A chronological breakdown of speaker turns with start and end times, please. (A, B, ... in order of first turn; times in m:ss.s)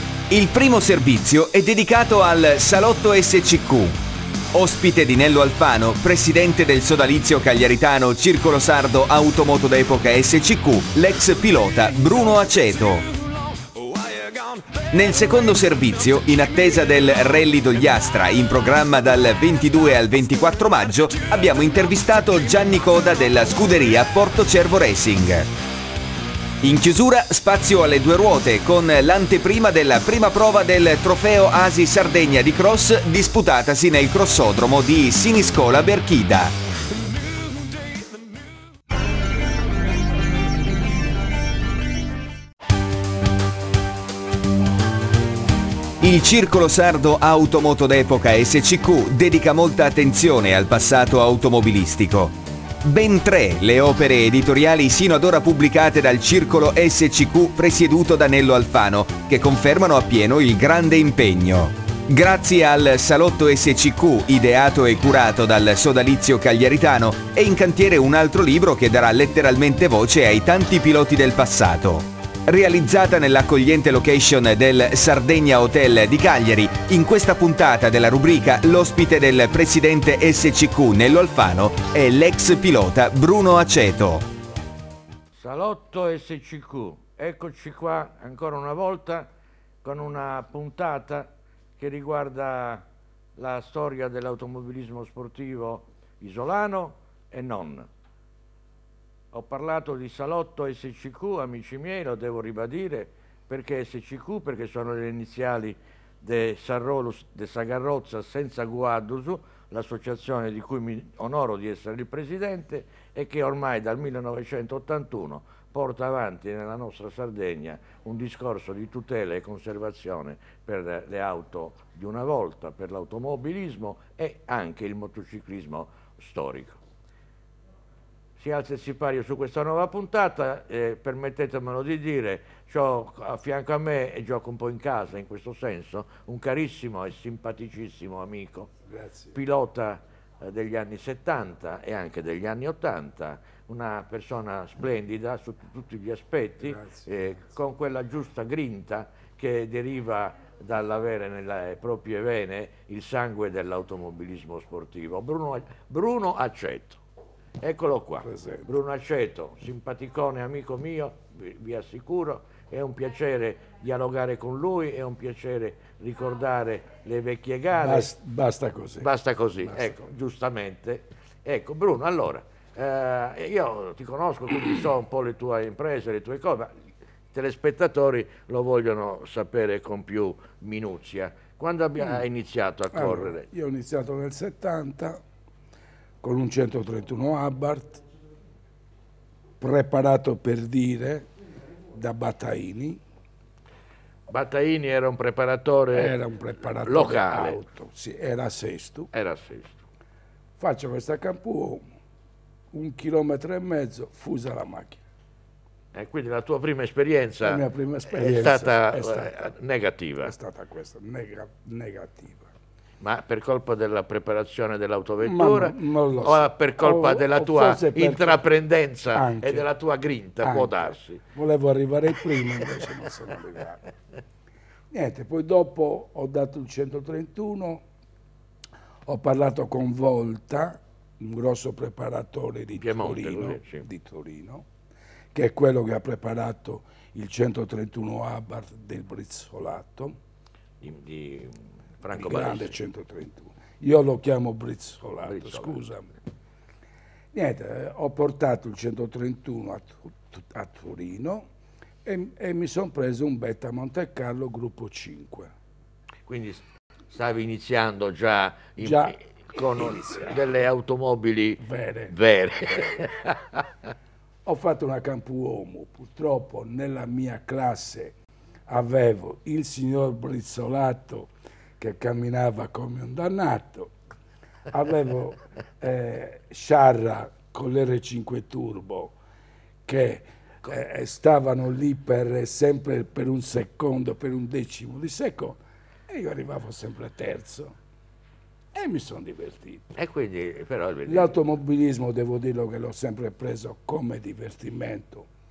0:00.3-0:04.0 A
0:04.5-0:13.1 A
0:14.9-0:25.5 A
0:26.6-0:36.6 A
0:46.0-1:24.2 A
1:25.4-1:29.3 B
1:29.8-1:37.9 B
1:39.3-2:06.8 B
2:08.4-2:18.7 B
2:18.9-2:19.4 C
2:19.3-2:37.0 B
2:26.6-2:27.2 C
2:37.6-2:48.1 B
2:38.2-2:38.7 C
2:47.8-2:50.1 C
2:49.0-2:56.7 B
2:57.3-3:03.5 B
3:02.9-3:05.2 C
3:06.2-3:08.0 C
3:09.6-3:11.3 C
3:11.9-3:13.0 C
3:14.3-3:17.6 B
3:15.9-3:19.1 C
3:19.1-3:19.9 B
3:20.6-3:21.8 C
3:22.7-3:25.0 C
3:25.9-3:30.3 B
3:27.4-3:29.5 C
3:30.2-3:32.5 C
3:33.0-3:41.2 B
3:35.2-3:38.5 C
3:39.1-3:39.7 C
3:40.4-3:43.8 C
3:42.4-3:43.0 B
3:44.9-3:47.8 C
3:49.1-3:54.7 C
3:52.7-3:53.9 B
3:55.3-4:00.2 C
4:00.8-4:02.8 B
4:02.1-4:06.1 C
4:05.2-4:05.8 B
4:07.3-4:11.5 C
4:12.0-4:15.5 C
4:16.3-4:23.6 B
4:18.8-4:19.2 C
4:19.7-4:20.4 C
4:21.6-4:22.2 C
4:24.4-4:28.2 C
4:28.7-4:33.9 C
4:34.7-4:39.2 C
4:39.9-4:47.8 C
4:48.7-4:49.9 C
4:50.0-4:51.4 B
4:51.1-4:55.3 C